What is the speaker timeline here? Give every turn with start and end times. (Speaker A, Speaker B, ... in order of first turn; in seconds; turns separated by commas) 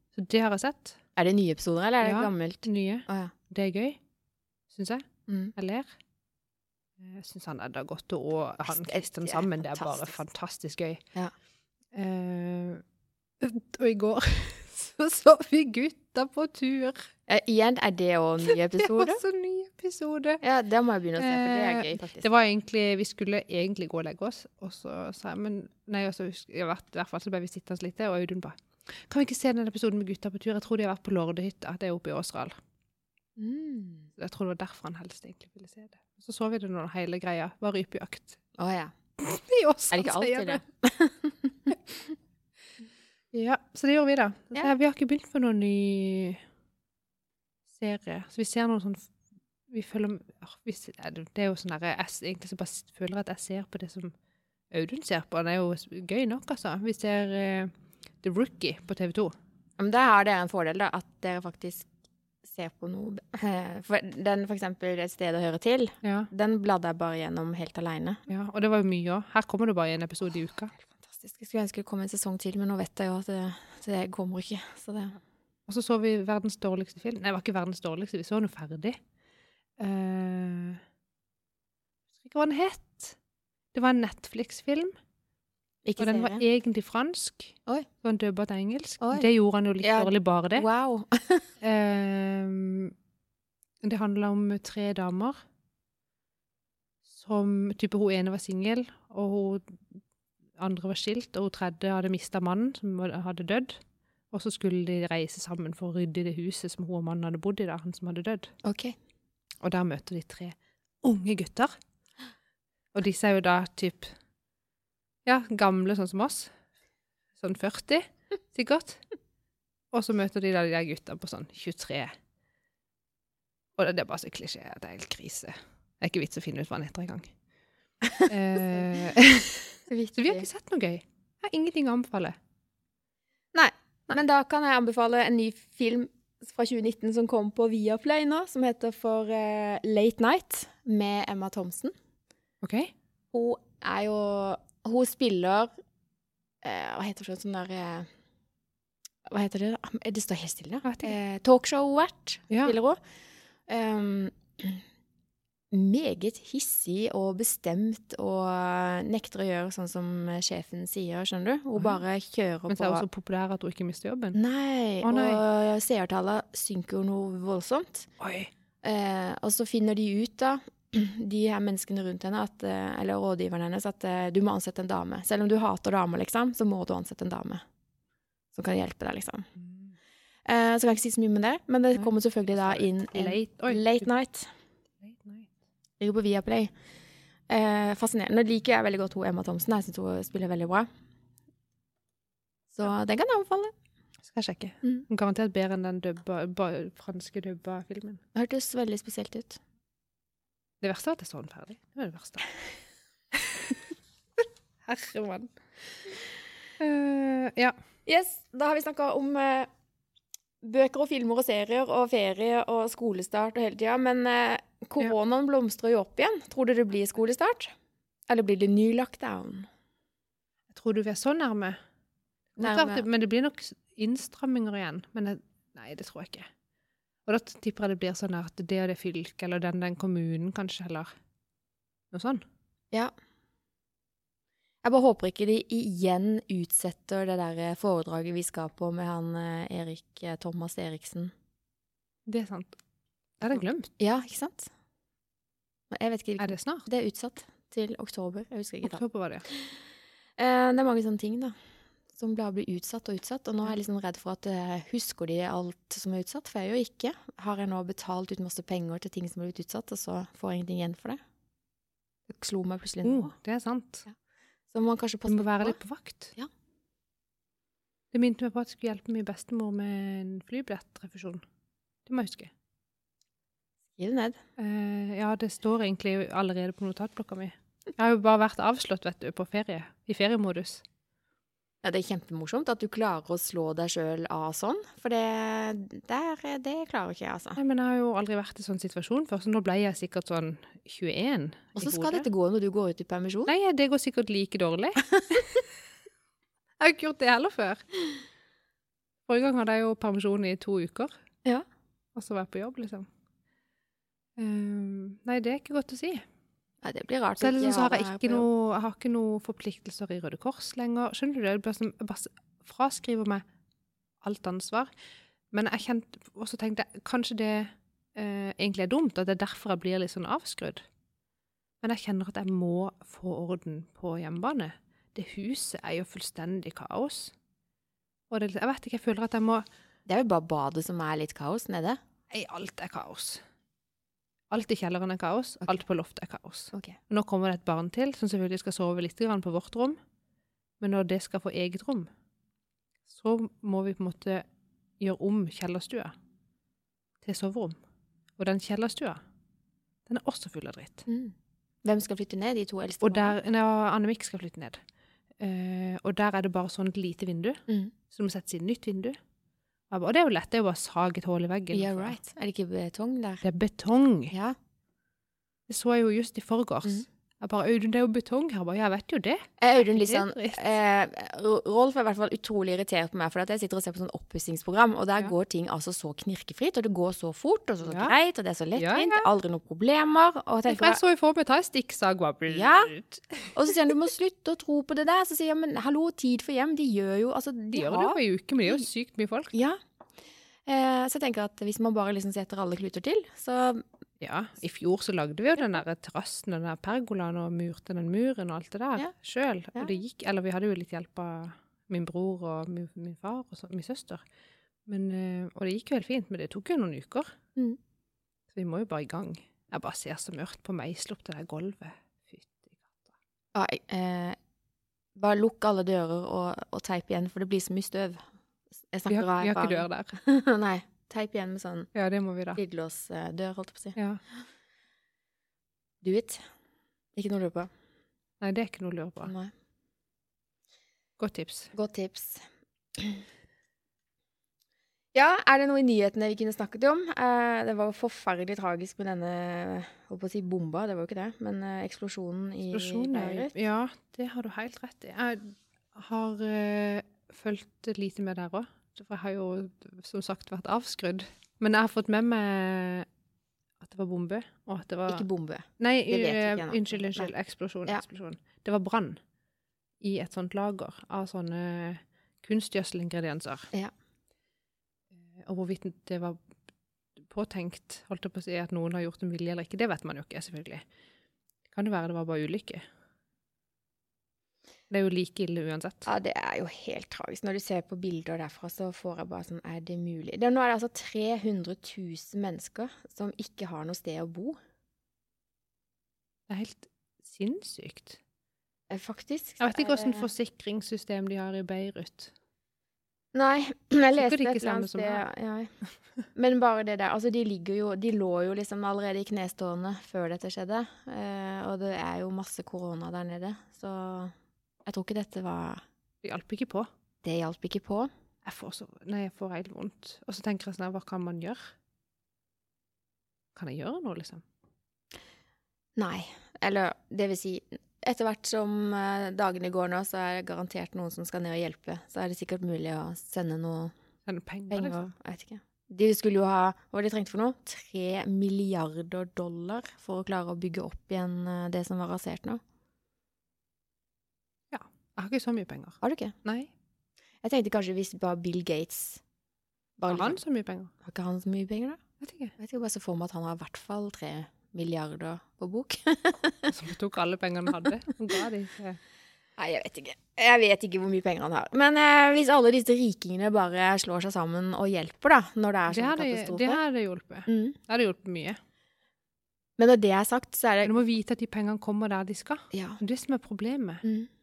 Speaker A: 0.1-1.0, Speaker B: 1.1-3.3, Speaker A: 2.0-4.0, Speaker A: 4.7-5.0, Speaker B: 5.3-5.5, Speaker A: 5.5-5.9, Speaker A: 7.0-11.0, Speaker B: 8.7-10.2, Speaker A: 11.9-12.8, Speaker A: 13.4-17.1, Speaker B: 17.3-19.2, Speaker A: 18.5-20.4, Speaker B: 20.4-22.2, Speaker A: 21.2-32.5, Speaker B: 33.4-34.1, Speaker A: 34.2-38.4, Speaker B: 38.6-38.9, Speaker A: 39.2-40.6, Speaker B: 39.9-41.7, Speaker A: 43.3-46.4, Speaker A: 47.7-49.1, Speaker A: 49.7-54.1, Speaker A: 54.7-59.3, Speaker B: 59.8-61.9, Speaker B: 62.5-68.2, Speaker A: 66.0-66.3, Speaker A: 68.3-70.7, Speaker B: 70.8-75.2, Speaker A: 75.7-79.0, Speaker A: 79.8-80.8, Speaker A: 82.2-83.2, Speaker A: 83.7-84.9, Speaker B: 85.8-86.4, Speaker A: 86.0-90.7, Speaker B: 89.0-89.3, Speaker B: 89.8-91.5, Speaker A: 91.6-92.9, Speaker A: 93.8-95.4, Speaker A: 97.1-99.8, Speaker A: 100.6-103.8, Speaker A: 104.3-108.5, Speaker B: 108.6-109.0, Speaker A: 109.6-111.7, Speaker A: 112.9-114.1, Speaker A: 115.2-116.5, Speaker A: 117.4-119.0, Speaker A: 119.9-122.1, Speaker A: 123.8-127.3, Speaker B: 128.0-128.3, Speaker A: 128.3-132.4, Speaker B: 129.9-130.5, Speaker B: 133.5-141.9, Speaker A: 142.6-142.9, Speaker B: 143.3-145.7, Speaker B: 146.6-148.1, Speaker B: 149.3-153.0, Speaker A: 150.8-151.1, Speaker A: 152.5-152.7, Speaker B: 153.7-154.8, Speaker B: 155.7-163.0, Speaker A: 162.7-164.4, Speaker B: 164.3-168.1, Speaker A: 165.0-165.4, Speaker A: 168.2-168.5, Speaker B: 168.8-177.6, Speaker B: 178.5-179.5, Speaker A: 179.6-179.9, Speaker B: 180.5-184.5, Speaker A: 181.9-184.1, Speaker A: 185.0-185.5, Speaker B: 186.0-186.7, Speaker B: 187.5-190.9, Speaker B: 192.7-193.7, Speaker A: 194.2-198.2, Speaker B: 198.3-199.6, Speaker A: 200.8-202.5, Speaker A: 203.3-203.8, Speaker A: 204.8-205.5, Speaker A: 206.8-207.7, Speaker B: 208.1-209.7, Speaker B: 210.6-217.7, Speaker B: 218.3-219.7, Speaker A: 220.7-221.8, Speaker B: 222.6-223.0, Speaker A: 222.6-226.5, Speaker A: 227.2-231.1, Speaker A: 232.1-232.4, Speaker B: 234.8-241.3, Speaker A: 242.2-242.8, Speaker A: 243.4-243.9, Speaker B: 244.0-244.7, Speaker B: 245.9-249.7, Speaker A: 246.4-246.8, Speaker A: 248.8-249.4, Speaker B: 250.4-251.5, Speaker B: 252.1-261.2, Speaker B: 262.3-263.3, Speaker A: 263.0-264.1, Speaker B: 264.7-265.8, Speaker A: 265.3-266.3, Speaker A: 268.1-271.4, Speaker A: 272.1-272.5, Speaker B: 274.0-274.4, Speaker A: 274.6-280.8, Speaker B: 281.8-287.6, Speaker A: 287.6-292.3, Speaker B: 291.8-293.5, Speaker A: 293.5-295.6, Speaker B: 295.1-295.4, Speaker A: 296.8-297.8, Speaker A: 299.2-301.1, Speaker A: 302.1-303.1, Speaker A: 304.4-306.2, Speaker B: 306.8-308.4, Speaker A: 307.4-313.4, Speaker A: 314.2-314.9, Speaker A: 315.5-320.8, Speaker A: 321.8-327.3, Speaker A: 328.3-329.6, Speaker B: 330.1-332.0, Speaker A: 332.3-333.4, Speaker A: 334.5-340.0, Speaker B: 336.7-337.0, Speaker A: 340.8-342.1, Speaker A: 343.1-344.4, Speaker A: 345.0-346.1, Speaker A: 347.2-347.8, Speaker A: 348.4-349.2, Speaker A: 350.1-351.0, Speaker B: 351.1-353.4, Speaker A: 353.0-354.8, Speaker A: 355.4-359.2, Speaker B: 357.7-357.9, Speaker A: 359.9-362.1, Speaker B: 361.7-363.4, Speaker A: 363.4-364.3, Speaker B: 364.3-364.6, Speaker A: 365.7-370.6, Speaker B: 369.6-381.0, Speaker A: 377.8-378.1, Speaker A: 378.8-379.3, Speaker A: 380.6-383.9, Speaker B: 382.5-382.9, Speaker B: 383.5-388.8, Speaker A: 387.7-389.5, Speaker B: 389.5-389.8, Speaker B: 390.6-393.8, Speaker A: 394.2-404.2, Speaker A: 404.9-407.3, Speaker A: 408.5-413.1, Speaker B: 413.5-414.4, Speaker B: 415.1-418.2, Speaker B: 418.9-421.9, Speaker A: 419.1-420.1, Speaker A: 421.9-422.6, Speaker B: 422.5-424.0, Speaker A: 423.9-424.2, Speaker B: 426.0-426.4, Speaker B: 427.1-427.7, Speaker A: 428.4-429.3, Speaker B: 429.2-429.5, Speaker A: 431.2-431.7, Speaker B: 431.7-432.4, Speaker B: 432.9-433.2, Speaker B: 435.1-443.5, Speaker A: 442.7-453.1, Speaker A: 453.8-455.2, Speaker B: 455.1-457.3, Speaker A: 455.8-459.2, Speaker A: 460.0-463.7, Speaker A: 465.3-466.4, Speaker A: 467.2-470.8, Speaker A: 471.7-472.8, Speaker A: 474.9-476.1, Speaker B: 476.1-484.6, Speaker A: 486.5-488.2, Speaker B: 488.9-490.3, Speaker A: 489.6-492.3, Speaker B: 493.3-495.7, Speaker A: 494.1-495.2, Speaker B: 496.3-504.3, Speaker B: 504.8-505.8, Speaker A: 506.2-506.9, Speaker B: 507.2-508.1, Speaker A: 508.4-511.7, Speaker A: 513.5-514.4, Speaker B: 516.0-523.9, Speaker A: 524.2-525.1, Speaker B: 524.7-532.6, Speaker A: 534.7-536.7, Speaker B: 536.0-536.3, Speaker B: 537.4-539.2, Speaker B: 540.0-540.4, Speaker A: 540.1-540.9, Speaker B: 541.0-542.0, Speaker A: 542.2-542.5, Speaker B: 542.6-546.7, Speaker A: 546.7-549.0, Speaker B: 549.6-556.8, Speaker A: 555.9-558.6, Speaker B: 557.5-557.8, Speaker B: 559.8-561.0, Speaker A: 560.8-564.0, Speaker B: 562.7-563.0, Speaker B: 564.0-564.3